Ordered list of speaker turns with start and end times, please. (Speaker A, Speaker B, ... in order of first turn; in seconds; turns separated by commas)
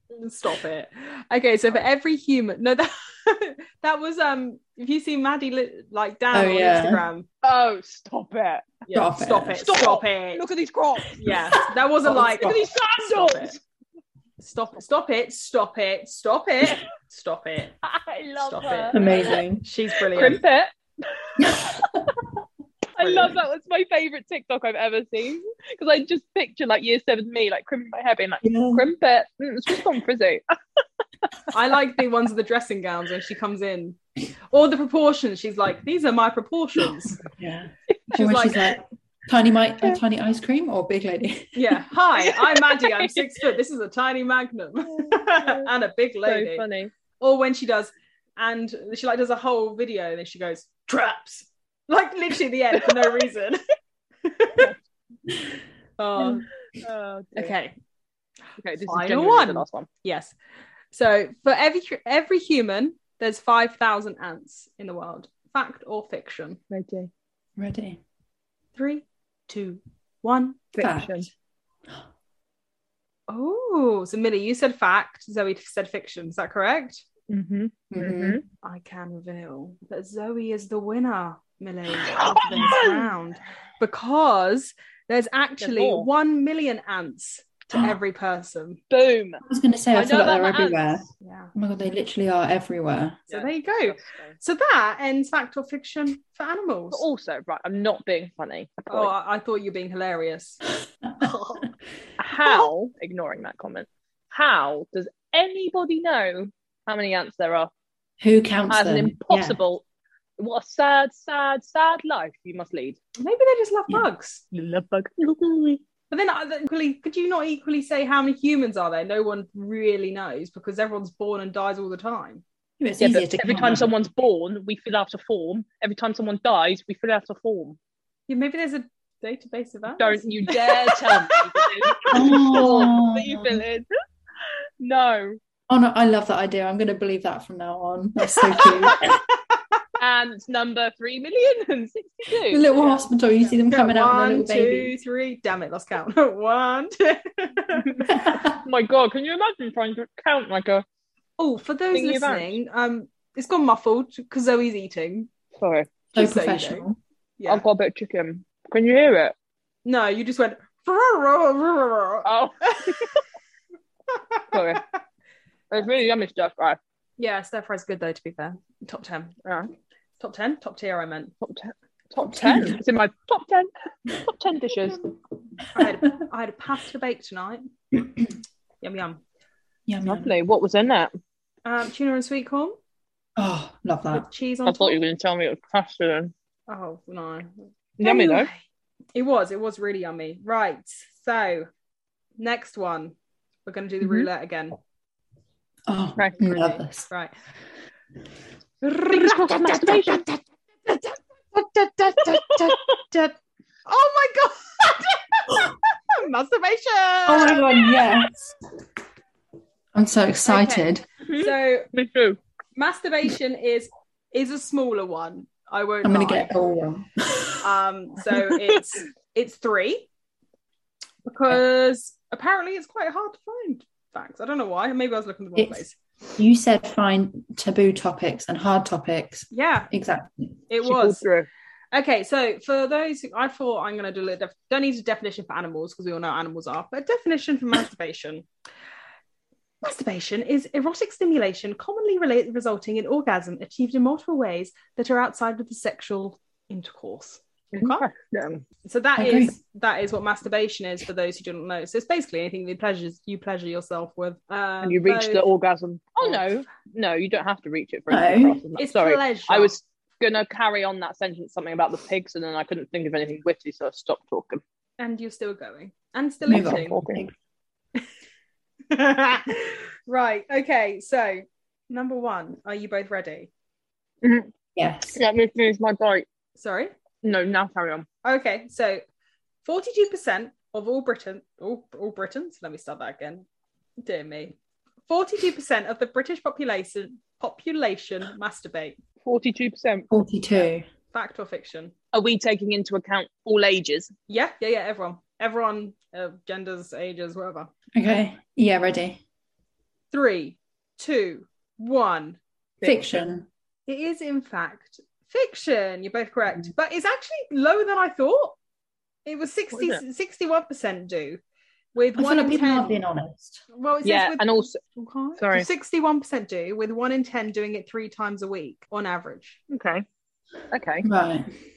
Speaker A: 0.1-7.3, Speaker B: 6.3-7.0, Speaker C: 7.4-8.8, Speaker A: 8.8-10.4, Speaker B: 8.9-9.7, Speaker C: 9.6-11.2, Speaker A: 11.2-13.5, Speaker B: 12.0-12.6, Speaker C: 12.2-13.6, Speaker A: 14.4-17.8, Speaker C: 17.8-19.4, Speaker A: 18.4-20.4, Speaker B: 18.9-19.6, Speaker C: 20.1-21.9, Speaker B: 21.4-22.1, Speaker C: 23.0-30.4, Speaker A: 23.0-23.4, Speaker B: 28.4-28.8, Speaker A: 31.5-34.0, Speaker A: 34.5-37.2, Speaker B: 37.2-41.6, Speaker A: 38.1-38.8, Speaker A: 41.5-46.6, Speaker C: 42.5-43.2, Speaker C: 44.9-45.7, Speaker C: 46.2-46.9, Speaker A: 47.2-53.6, Speaker C: 52.8-53.2, Speaker A: 54.2-54.7, Speaker A: 56.0-56.5, Speaker C: 56.7-57.5, Speaker A: 57.4-57.8, Speaker C: 58.6-59.9, Speaker A: 58.8-60.3, Speaker A: 60.9-66.6, Speaker C: 66.7-67.1, Speaker B: 67.6-68.0, Speaker A: 68.8-70.8, Speaker C: 70.7-71.3, Speaker B: 70.8-71.3, Speaker A: 73.3-77.0, Speaker C: 77.3-78.4, Speaker B: 77.9-78.4, Speaker A: 78.6-88.8, Speaker C: 82.0-83.1, Speaker C: 85.6-86.1, Speaker C: 88.9-89.4, Speaker B: 89.4-93.2, Speaker C: 89.9-91.0, Speaker A: 91.2-91.5, Speaker C: 93.3-94.4, Speaker A: 93.3-97.0, Speaker C: 96.9-99.1, Speaker A: 98.9-100.6, Speaker B: 101.0-101.7, Speaker A: 101.2-101.6, Speaker C: 102.2-107.7, Speaker A: 102.4-102.7, Speaker B: 108.2-109.6, Speaker C: 108.7-109.8, Speaker C: 110.4-113.0, Speaker A: 113.2-114.4, Speaker C: 114.5-115.8, Speaker A: 116.1-122.4, Speaker B: 122.8-123.9, Speaker C: 123.0-127.8, Speaker A: 128.3-132.8, Speaker C: 130.0-133.9, Speaker B: 132.1-133.6, Speaker C: 134.4-135.4, Speaker B: 135.7-139.2, Speaker A: 138.5-139.2, Speaker C: 140.0-143.1, Speaker B: 142.5-144.9, Speaker A: 143.4-148.1, Speaker C: 147.9-150.8, Speaker B: 148.1-148.6, Speaker A: 151.4-155.3, Speaker C: 151.9-152.5, Speaker C: 155.6-155.9, Speaker A: 156.1-156.9, Speaker B: 156.1-157.0, Speaker A: 157.4-157.6, Speaker C: 157.5-159.3, Speaker A: 159.8-163.1, Speaker C: 162.2-163.2, Speaker A: 164.1-164.8, Speaker C: 164.5-164.8, Speaker C: 165.7-166.8, Speaker A: 167.2-169.4, Speaker C: 169.4-169.7, Speaker A: 170.2-171.3, Speaker C: 171.4-175.0, Speaker B: 172.2-172.8, Speaker A: 175.7-177.6, Speaker A: 178.8-179.2, Speaker B: 179.9-180.3, Speaker C: 180.1-181.1, Speaker A: 181.6-182.8, Speaker B: 183.4-184.3, Speaker A: 184.1-185.0, Speaker C: 184.6-186.3, Speaker A: 186.7-188.6, Speaker C: 188.0-188.5, Speaker A: 189.1-191.7, Speaker A: 192.4-194.8, Speaker B: 195.9-197.1, Speaker A: 196.4-197.3, Speaker A: 198.8-203.3, Speaker C: 199.1-200.2, Speaker A: 203.8-207.9, Speaker B: 207.3-208.5, Speaker B: 209.9-211.0, Speaker A: 210.5-211.9, Speaker C: 211.2-212.4, Speaker A: 212.8-216.5, Speaker B: 216.0-217.7, Speaker A: 217.6-220.1, Speaker A: 221.2-226.0, Speaker B: 225.6-225.8, Speaker B: 226.3-230.5, Speaker A: 229.5-229.9, Speaker A: 230.7-231.2, Speaker C: 230.8-231.5, Speaker A: 231.9-238.5, Speaker A: 239.8-248.1, Speaker C: 247.7-248.6, Speaker A: 248.8-255.4, Speaker B: 249.2-249.6, Speaker C: 254.8-264.6, Speaker A: 256.2-256.5, Speaker B: 258.1-258.6, Speaker A: 258.8-259.8, Speaker A: 265.0-267.0, Speaker B: 266.5-267.3, Speaker C: 266.7-267.2, Speaker A: 268.9-273.5, Speaker C: 274.2-274.5, Speaker B: 274.8-275.2, Speaker C: 275.1-276.2, Speaker A: 276.6-276.9, Speaker C: 277.2-278.1, Speaker A: 278.2-279.0, Speaker A: 279.6-283.4, Speaker A: 284.0-284.6, Speaker A: 285.1-289.0, Speaker C: 289.2-290.1, Speaker B: 290.1-290.9, Speaker A: 290.5-291.9, Speaker C: 292.1-294.1, Speaker A: 294.3-297.7, Speaker B: 297.9-299.2, Speaker A: 300.1-302.4, Speaker C: 302.8-303.1, Speaker B: 302.8-303.5, Speaker A: 303.9-308.6, Speaker A: 309.2-311.4, Speaker C: 309.7-310.0, Speaker A: 311.9-313.0, Speaker B: 312.2-313.6, Speaker A: 313.7-319.6, Speaker C: 314.0-314.8, Speaker C: 315.4-315.7, Speaker C: 319.7-320.0, Speaker C: 320.7-321.1, Speaker B: 321.0-321.5